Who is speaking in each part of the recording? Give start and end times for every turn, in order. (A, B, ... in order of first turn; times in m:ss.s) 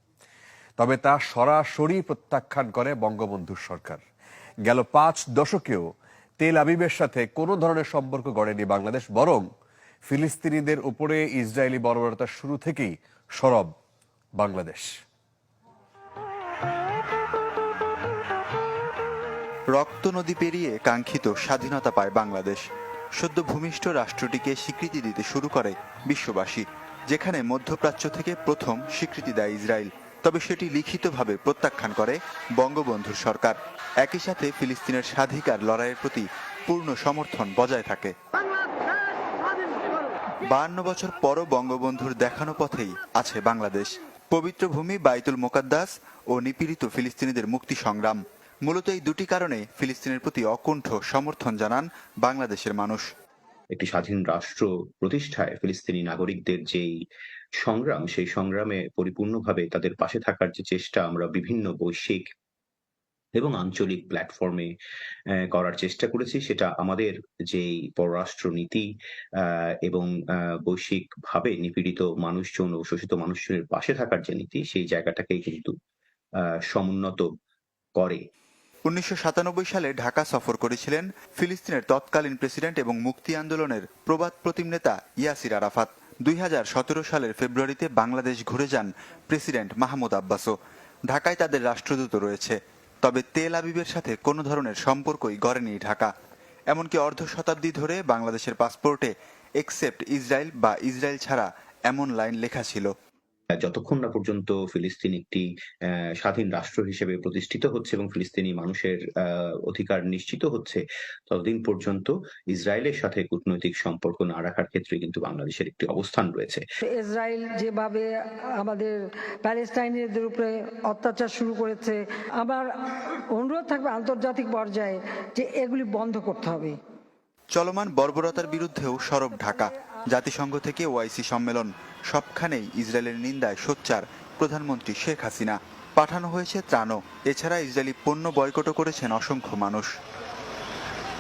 0:00.8-0:04.0 A
0:04.7-0:09.5 A
0:10.1-0:13.7 A
0:14.4-0:14.9 A
0:19.7-0:22.6 B
0:23.2-0:38.1 B
0:40.4-0:53.0 B
0:53.7-0:56.9 C
0:57.6-1:02.3 C
1:03.4-1:04.7 C
1:05.3-1:08.9 C
1:09.4-1:15.7 C
1:16.4-1:17.3 C
1:18.0-1:18.2 C
1:18.9-1:30.5 B
1:31.1-1:36.1 B
1:36.7-1:42.9 B
1:43.6-1:56.6 C
1:56.9-2:06.8 D
2:07.5-2:19.9 B